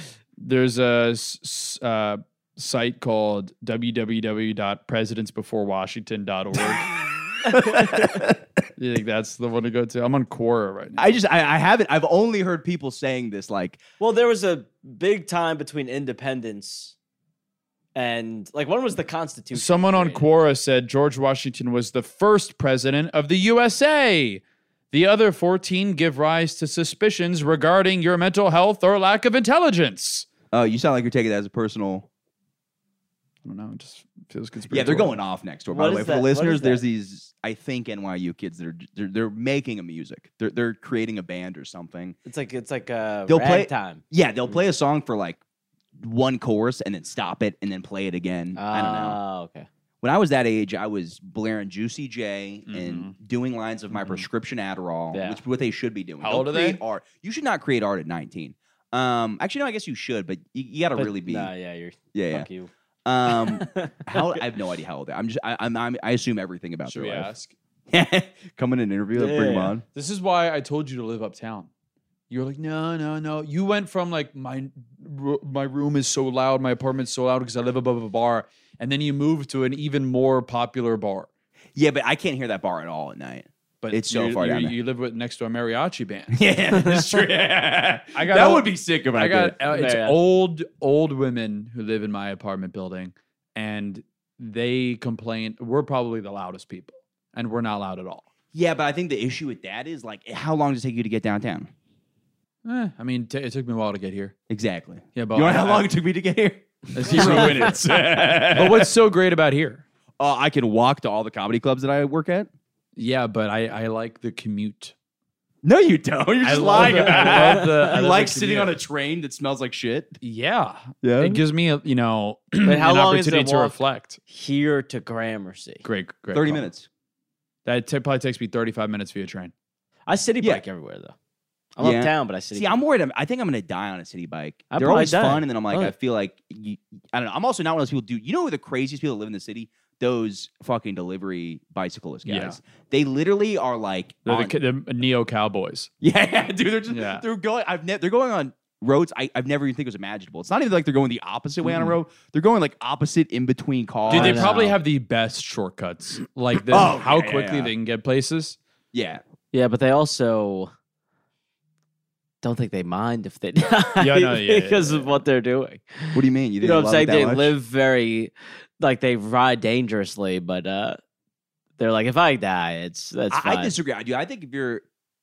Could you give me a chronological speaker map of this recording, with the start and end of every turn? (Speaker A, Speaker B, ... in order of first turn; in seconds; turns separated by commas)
Speaker A: 0.4-6.9, Speaker B: 7.5-8.4, Speaker C: 7.5-7.9, Speaker A: 8.8-11.2, Speaker B: 11.0-13.8, Speaker C: 14.0-16.9, Speaker C: 17.9-20.3, Speaker A: 19.5-30.3, Speaker B: 30.5-32.1, Speaker A: 33.4-35.2, Speaker B: 34.7-42.2, Speaker C: 35.7-36.8, Speaker C: 42.2-44.5, Speaker B: 43.3-45.4, Speaker B: 46.0-49.2, Speaker C: 48.5-49.7, Speaker B: 50.0-61.5, Speaker A: 52.7-53.1, Speaker C: 55.1-55.4, Speaker A: 56.2-56.8, Speaker C: 61.0-62.7, Speaker B: 62.1-62.5, Speaker B: 63.0-67.3, Speaker C: 63.3-64.4, Speaker A: 66.9-67.5, Speaker B: 67.9-69.8, Speaker C: 69.1-69.8, Speaker A: 69.9-71.7, Speaker A: 72.3-81.3, Speaker B: 81.8-84.7, Speaker A: 83.8-86.4, Speaker B: 86.3-89.6, Speaker A: 88.1-98.3, Speaker C: 89.7-90.2, Speaker B: 98.5-101.7, Speaker A: 102.6-104.3, Speaker B: 104.5-108.9, Speaker A: 105.2-105.9, Speaker A: 106.9-109.8, Speaker B: 110.2-112.5, Speaker A: 113.0-114.9, Speaker B: 115.6-120.2, Speaker A: 116.4-118.7, Speaker C: 116.5-117.9, Speaker A: 120.2-124.2, Speaker B: 121.0-121.4, Speaker C: 122.6-123.8, Speaker C: 124.3-125.8, Speaker A: 125.8-126.7, Speaker B: 126.3-126.9, Speaker A: 127.6-129.5, Speaker C: 130.1-131.1, Speaker C: 131.8-132.8, Speaker B: 131.8-144.5, Speaker C: 134.7-135.9, Speaker A: 142.2-142.6, Speaker A: 144.2-145.9, Speaker B: 146.0-154.7, Speaker A: 146.9-147.2, Speaker A: 151.6-152.0, Speaker A: 154.1-158.6, Speaker C: 154.1-154.8, Speaker B: 156.7-157.7, Speaker B: 158.9-159.2, Speaker C: 159.5-160.7, Speaker C: 162.4-171.0, Speaker A: 164.0-165.2, Speaker B: 166.1-167.5, Speaker C: 171.8-173.7, Speaker B: 173.3-174.8